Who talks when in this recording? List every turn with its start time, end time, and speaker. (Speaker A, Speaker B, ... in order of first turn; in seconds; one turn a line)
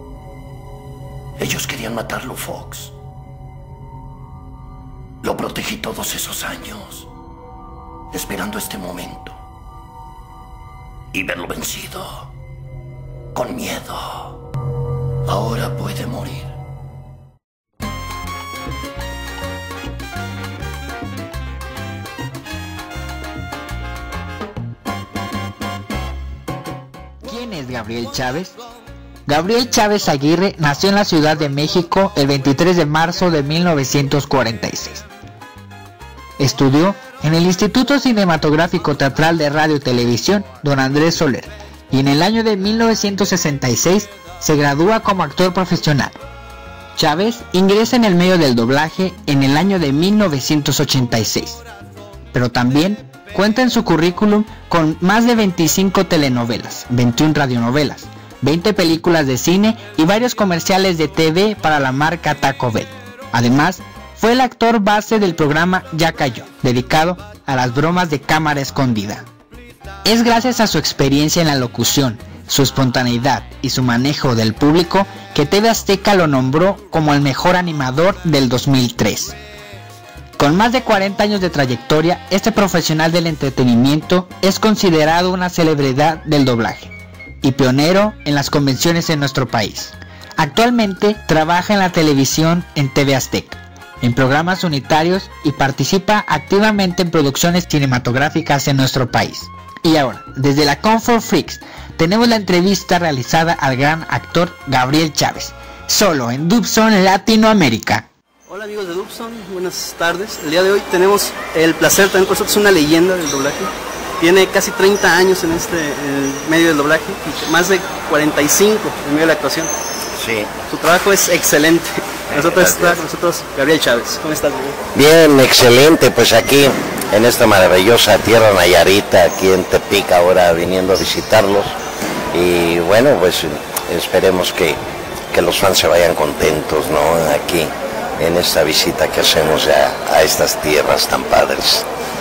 Speaker A: 1.4-2.9
Speaker A: 5.2-7.1
Speaker A: 8.1-9.4
Speaker A: 11.1-12.3
Speaker A: 13.3-14.4
Speaker A: 15.2-16.5
Speaker B: 27.2-28.6
Speaker B: 29.3-35.0
Speaker B: 36.4-46.2
Speaker B: 47.0-51.6
Speaker B: 52.3-69.2
Speaker B: 70.0-79.4
Speaker B: 80.4-108.1
Speaker C: 108.5-119.7
Speaker D: 120.1-120.5
Speaker C: 120.7-124.8
Speaker D: 122.3-123.0
Speaker D: 124.9-131.8
Speaker D: 132.3-141.9